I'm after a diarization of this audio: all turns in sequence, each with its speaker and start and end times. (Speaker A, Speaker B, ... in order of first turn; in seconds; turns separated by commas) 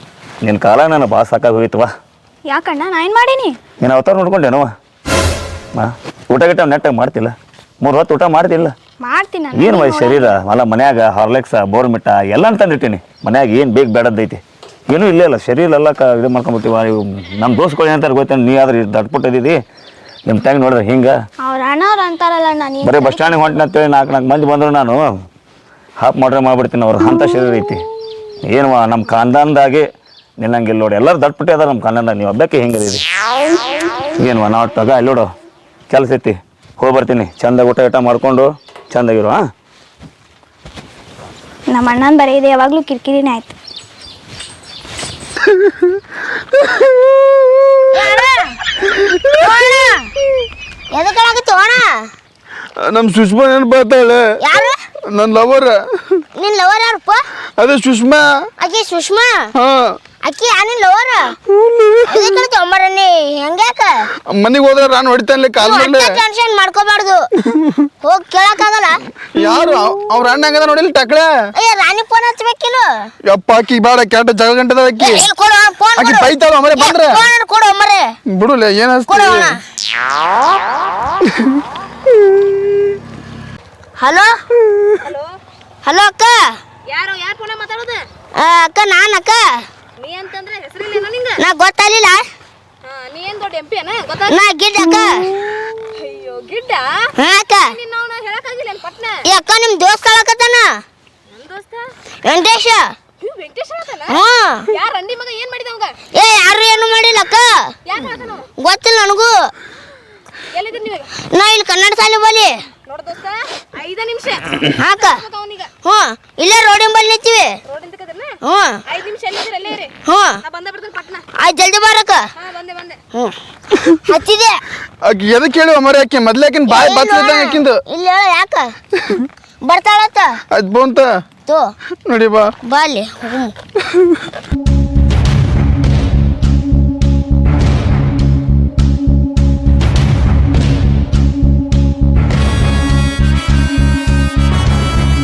Speaker A: 0.4-1.9, Speaker B: 2.5-3.6, Speaker A: 3.8-4.7, Speaker A: 5.8-8.7, Speaker B: 9.0-10.3, Speaker A: 9.5-19.6, Speaker A: 20.3-21.1, Speaker B: 21.4-23.3, Speaker A: 22.8-25.0, Speaker A: 26.0-27.8, Speaker A: 28.5-29.9, Speaker A: 30.4-33.0, Speaker A: 34.2-35.3, Speaker A: 35.9-39.4, Speaker B: 41.7-43.5, Speaker C: 46.6-47.7, Speaker D: 47.9-48.6, Speaker D: 49.3-50.1, Speaker D: 50.9-52.1, Speaker C: 52.8-54.3, Speaker D: 54.4-54.8, Speaker C: 55.1-56.2, Speaker D: 56.4-57.3, Speaker C: 57.6-58.5, Speaker D: 58.6-59.5, Speaker C: 59.5-60.0, Speaker D: 60.2-61.4, Speaker C: 61.6-62.2, Speaker D: 62.1-64.1, Speaker C: 64.3-66.2, Speaker D: 65.6-67.3, Speaker C: 67.5-67.8, Speaker D: 68.0-69.0, Speaker C: 69.3-71.3, Speaker D: 71.6-73.1, Speaker C: 73.2-75.3, Speaker D: 75.0-78.1, Speaker C: 76.0-77.2, Speaker C: 78.3-79.6, Speaker D: 79.1-79.6, Speaker C: 81.3-81.6, Speaker D: 84.0-84.4, Speaker E: 85.0-85.3, Speaker D: 85.8-86.6, Speaker E: 86.9-88.0, Speaker D: 88.4-89.7, Speaker E: 90.0-91.4, Speaker D: 91.4-92.3, Speaker E: 92.8-94.4, Speaker D: 94.3-95.3, Speaker E: 96.0-97.1, Speaker D: 97.2-97.8, Speaker E: 97.6-99.3, Speaker D: 99.2-100.8, Speaker E: 101.3-101.9, Speaker D: 102.2-103.0, Speaker E: 103.2-106.0, Speaker D: 104.1-104.7, Speaker D: 106.1-107.8, Speaker E: 107.8-108.5, Speaker D: 108.6-109.5, Speaker E: 110.5-111.1, Speaker D: 111.3-112.6, Speaker E: 112.9-115.7, Speaker D: 114.8-115.2, Speaker D: 115.8-117.5, Speaker E: 117.7-121.3, Speaker D: 118.4-118.8, Speaker D: 120.1-120.3, Speaker D: 121.4-122.2, Speaker E: 122.4-123.0, Speaker D: 123.9-124.6, Speaker C: 125.0-127.8, Speaker D: 126.7-128.7, Speaker C: 129.0-129.3, Speaker D: 129.6-130.4, Speaker C: 130.5-131.2, Speaker D: 131.5-131.7, Speaker C: 132.1-132.5, Speaker D: 132.7-133.5